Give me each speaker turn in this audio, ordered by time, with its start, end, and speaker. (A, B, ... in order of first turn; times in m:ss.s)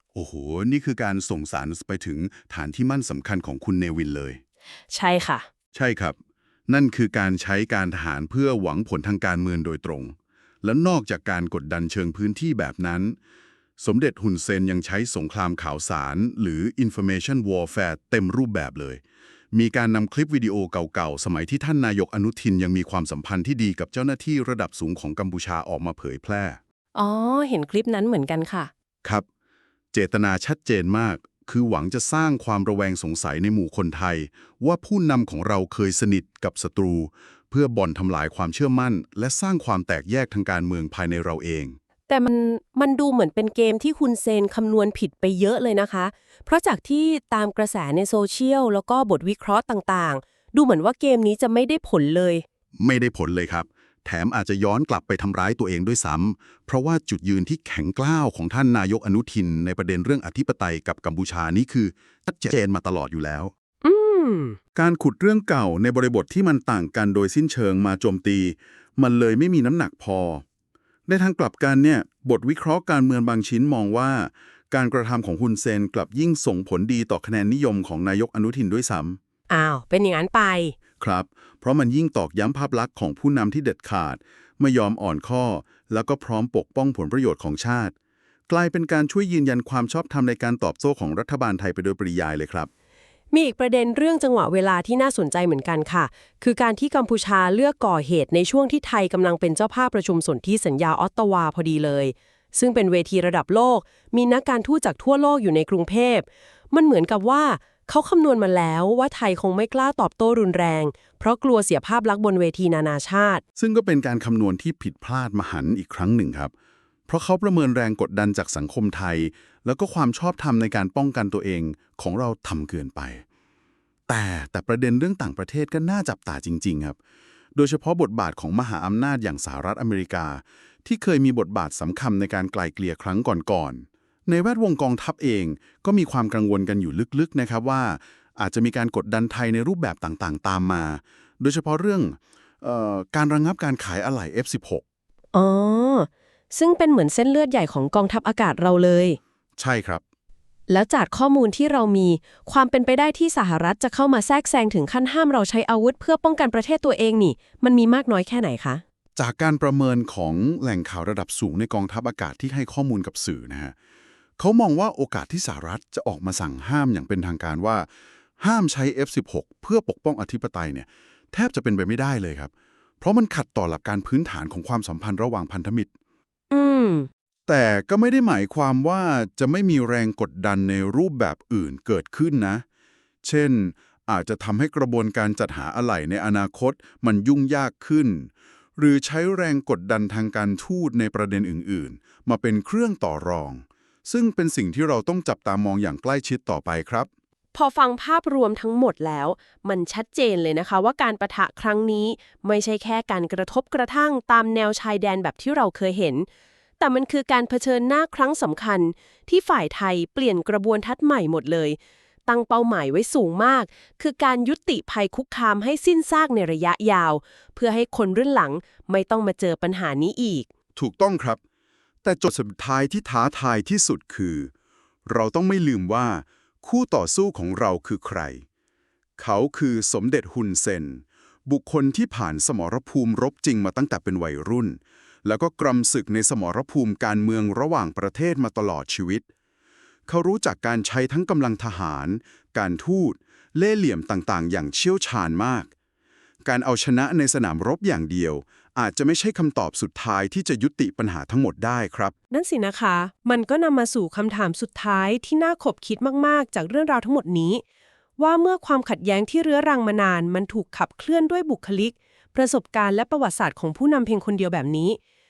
0:00.2-0:04.4 A
0:04.9-0:05.5 B
0:05.8-0:06.2 A
0:06.7-0:13.2 A
0:13.8-0:19.0 A
0:19.5-0:26.6 A
0:27.0-0:28.7 B
0:29.9-0:41.8 A
0:42.1-0:52.4 B
0:52.8-1:03.5 A
1:03.8-1:04.6 B
1:04.8-1:10.4 A
1:11.1-1:19.2 A
1:19.5-1:20.8 B
1:21.0-1:27.9 A
1:28.5-1:32.7 A
1:33.3-1:53.4 B
1:53.6-1:56.5 A
1:57.1-2:03.2 A
2:04.1-2:07.0 A
2:07.6-2:24.8 A
2:25.3-2:29.2 B
2:29.6-2:30.0 A
2:30.7-2:38.8 B
2:39.2-2:43.7 A
2:44.4-2:47.9 A
2:48.4-2:52.5 A
2:53.0-2:55.9 A
2:56.5-2:57.1 B
2:57.5-3:02.6 A
3:03.2-3:17.1 A
3:17.5-3:26.3 B
3:26.8-3:40.5 B
3:40.8-3:41.4 A
3:42.0-3:44.5 A
3:45.1-3:48.4 A
3:49.2-3:59.2 A
4:00.1-4:05.7 A
4:06.4-4:12.1 A
4:12.3-4:17.6 B
4:18.2-4:25.0 B